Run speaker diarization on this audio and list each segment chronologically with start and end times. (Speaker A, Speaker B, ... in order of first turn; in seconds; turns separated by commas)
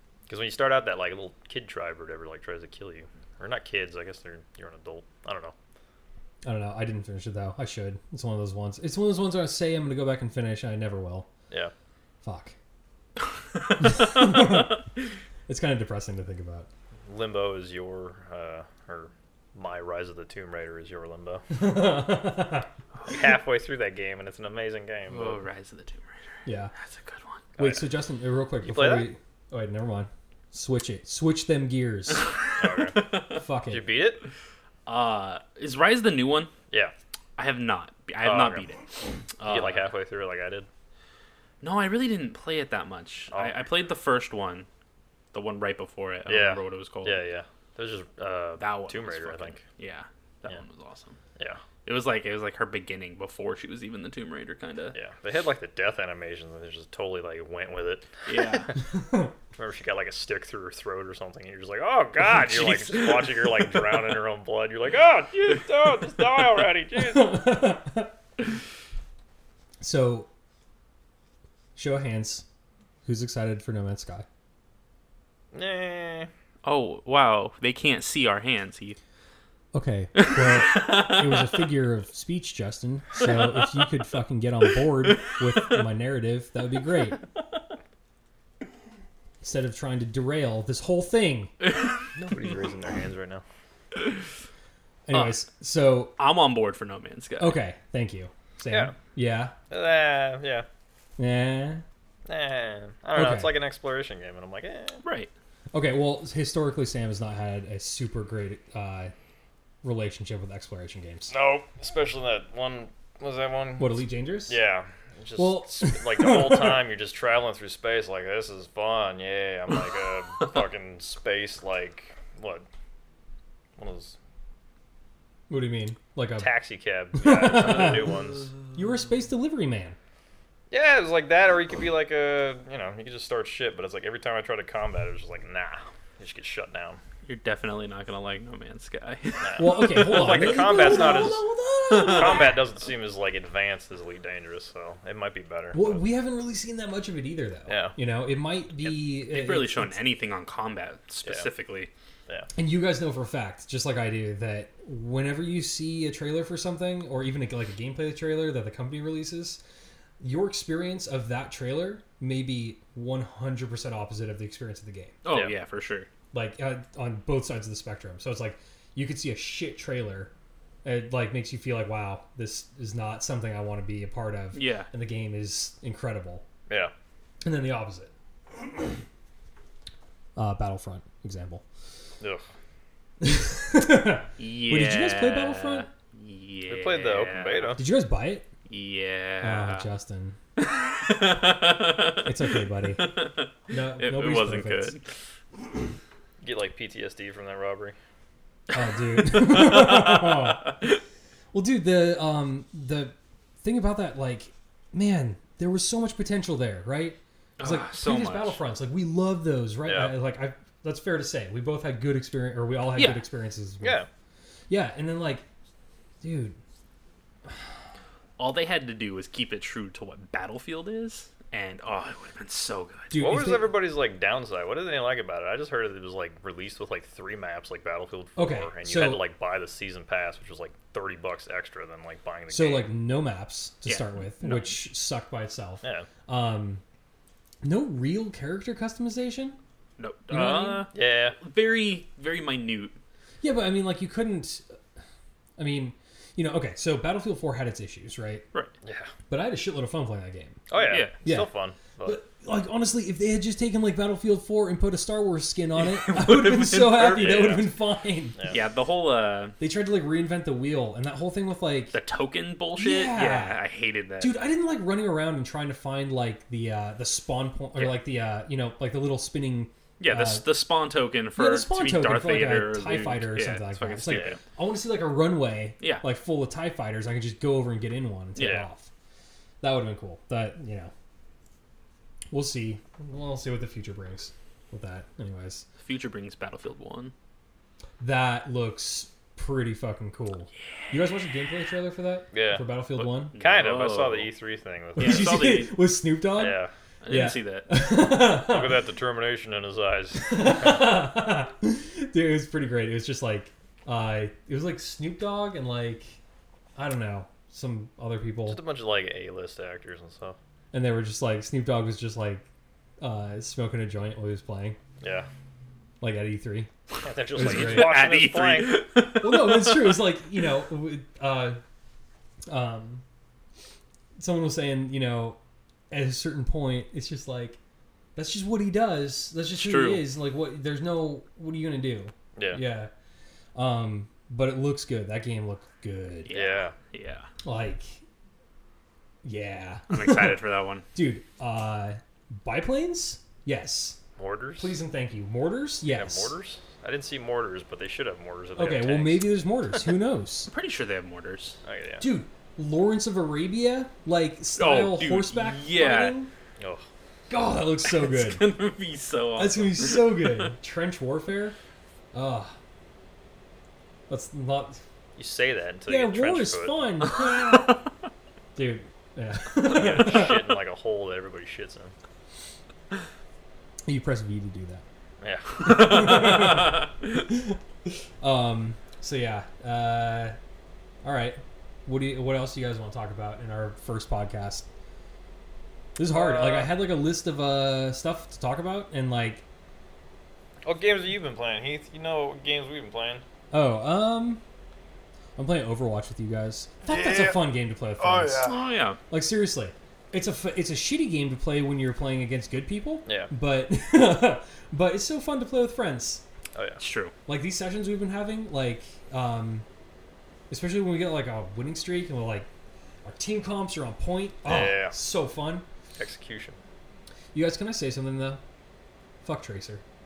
Speaker A: 0.3-5.5, Speaker B: 6.4-11.3, Speaker B: 12.2-12.6, Speaker B: 13.8-14.8, Speaker C: 13.8-14.6, Speaker B: 15.5-16.7, Speaker A: 17.1-21.5, Speaker B: 21.5-22.7, Speaker A: 23.1-25.4, Speaker C: 25.1-27.4, Speaker B: 26.4-26.7, Speaker A: 27.6-27.8, Speaker B: 27.6-32.3, Speaker A: 28.6-29.1, Speaker A: 32.6-33.1, Speaker C: 33.0-33.4, Speaker B: 33.3-33.8, Speaker A: 33.7-34.2, Speaker C: 34.9-36.5, Speaker C: 37.4-39.9, Speaker A: 38.2-38.7, Speaker A: 39.4-40.7, Speaker C: 41.6-44.7, Speaker A: 43.3-43.7, Speaker C: 45.3-47.2, Speaker A: 46.3-49.6, Speaker C: 48.6-51.2, Speaker C: 51.8-55.0, Speaker A: 54.9-58.7, Speaker C: 58.2-58.7, Speaker B: 59.1-59.3, Speaker A: 59.6-67.4, Speaker C: 62.2-63.7, Speaker B: 67.0-68.1, Speaker B: 69.8-70.3, Speaker B: 71.8-72.5, Speaker B: 73.0-74.3, Speaker A: 75.5-76.3, Speaker C: 76.6-79.0, Speaker B: 79.7-87.2, Speaker C: 80.2-81.7, Speaker C: 83.2-83.8, Speaker B: 89.4-91.5, Speaker C: 91.6-92.0, Speaker A: 92.1-93.4, Speaker B: 95.1-96.2, Speaker C: 95.1-95.4, Speaker C: 96.2-97.6, Speaker B: 97.4-99.5, Speaker A: 98.7-99.0, Speaker A: 99.7-100.7, Speaker B: 101.2-101.8, Speaker A: 102.3-105.0, Speaker B: 103.2-103.6, Speaker C: 105.0-105.3, Speaker B: 105.7-109.1, Speaker B: 109.8-111.3, Speaker A: 111.3-122.7, Speaker B: 113.8-114.6, Speaker B: 115.4-116.8, Speaker A: 123.8-124.2, Speaker B: 125.5-126.5, Speaker A: 126.4-128.5, Speaker B: 127.2-128.1, Speaker B: 128.7-130.0, Speaker A: 130.7-137.0, Speaker C: 137.2-141.3, Speaker A: 139.4-146.0, Speaker B: 139.6-142.6, Speaker C: 141.9-142.5, Speaker B: 145.7-150.0, Speaker A: 147.7-148.0, Speaker C: 148.8-151.9, Speaker B: 152.6-159.6, Speaker B: 160.2-165.2, Speaker C: 165.2-166.1, Speaker A: 165.3-165.6, Speaker B: 166.3-170.3, Speaker B: 170.8-176.4, Speaker C: 174.5-174.9, Speaker A: 176.7-176.9, Speaker B: 177.4-178.1, Speaker B: 180.4-181.6, Speaker A: 182.2-182.4, Speaker B: 183.2-185.9, Speaker C: 184.4-187.7, Speaker A: 186.7-187.8, Speaker B: 187.8-188.5, Speaker C: 188.7-189.9, Speaker B: 189.4-190.4, Speaker C: 190.6-192.4, Speaker B: 192.2-193.2, Speaker C: 192.9-195.0, Speaker B: 193.7-195.0, Speaker A: 196.4-198.0, Speaker B: 198.7-200.8, Speaker C: 199.2-200.7, Speaker B: 201.5-214.0, Speaker C: 207.6-208.6, Speaker A: 209.8-210.2, Speaker C: 213.0-213.2, Speaker A: 213.8-214.1, Speaker B: 214.7-215.4, Speaker B: 216.2-216.6, Speaker C: 218.4-223.2, Speaker B: 223.1-223.7, Speaker A: 223.2-232.9, Speaker B: 228.4-229.2, Speaker B: 232.5-236.8, Speaker C: 233.9-234.8, Speaker A: 235.8-236.1, Speaker B: 237.6-239.6, Speaker C: 240.0-243.0, Speaker A: 240.3-241.4, Speaker B: 240.4-240.7, Speaker B: 243.4-244.7, Speaker B: 245.6-248.4, Speaker A: 248.8-249.1, Speaker B: 249.3-250.7, Speaker A: 250.7-252.2, Speaker C: 250.8-251.2, Speaker B: 251.2-251.5, Speaker B: 252.0-258.4, Speaker C: 255.8-257.6, Speaker A: 257.2-257.6, Speaker A: 258.4-258.6, Speaker C: 258.5-259.6, Speaker B: 259.6-262.0, Speaker C: 261.9-264.4, Speaker B: 262.8-263.6, Speaker B: 264.2-270.6, Speaker C: 270.0-274.4, Speaker B: 271.4-278.9, Speaker A: 274.1-274.4, Speaker A: 278.4-278.7, Speaker B: 279.6-280.9, Speaker B: 282.3-285.7, Speaker C: 285.8-287.1, Speaker B: 288.0-293.4, Speaker A: 292.3-292.7, Speaker C: 293.0-294.3, Speaker A: 293.4-295.4, Speaker B: 295.0-298.8, Speaker C: 295.0-295.8, Speaker A: 296.4-296.7, Speaker C: 297.0-297.7, Speaker A: 298.4-300.9, Speaker B: 300.2-306.2, Speaker B: 306.8-308.6, Speaker A: 308.5-310.4, Speaker B: 310.7-312.4, Speaker B: 313.0-314.8, Speaker A: 315.0-315.3, Speaker B: 316.0-316.7, Speaker A: 317.0-318.8, Speaker B: 317.3-318.0, Speaker C: 317.4-320.0, Speaker B: 319.1-321.6, Speaker B: 322.5-323.0, Speaker B: 324.2-325.4, Speaker B: 325.9-327.6, Speaker B: 328.2-332.9, Speaker C: 329.6-330.1, Speaker A: 332.4-332.6, Speaker B: 333.6-336.3, Speaker C: 336.2-337.3, Speaker A: 336.3-336.8, Speaker B: 337.4-338.0, Speaker B: 339.2-340.4, Speaker C: 339.9-340.9, Speaker B: 340.9-344.0, Speaker A: 344.2-344.8, Speaker B: 344.6-346.4, Speaker A: 345.9-349.3, Speaker B: 348.6-350.5, Speaker C: 350.5-351.6, Speaker A: 351.6-352.1, Speaker B: 352.0-356.3, Speaker C: 354.6-356.2, Speaker A: 356.6-356.8, Speaker B: 357.3-358.5, Speaker C: 357.9-360.5, Speaker B: 359.4-361.6, Speaker B: 362.1-362.5, Speaker B: 364.1-364.8, Speaker A: 365.2-366.8, Speaker B: 365.9-367.8, Speaker B: 368.6-370.4, Speaker A: 369.7-371.9, Speaker B: 373.9-374.8, Speaker A: 375.2-376.1, Speaker B: 375.6-377.6, Speaker C: 375.7-376.8, Speaker B: 378.2-380.4, Speaker B: 381.0-384.7, Speaker B: 386.0-389.4, Speaker A: 386.1-386.7, Speaker A: 390.6-393.2, Speaker B: 393.5-394.4, Speaker B: 395.4-398.5, Speaker A: 396.9-397.4, Speaker A: 398.0-398.6, Speaker C: 398.4-399.0, Speaker B: 399.1-406.2, Speaker A: 403.1-403.3, Speaker A: 406.6-406.8, Speaker C: 406.8-407.1, Speaker B: 407.3-409.6, Speaker B: 410.5-412.5, Speaker B: 413.1-415.6, Speaker A: 414.4-414.9, Speaker A: 416.0-416.6, Speaker B: 417.3-418.4, Speaker B: 419.2-419.8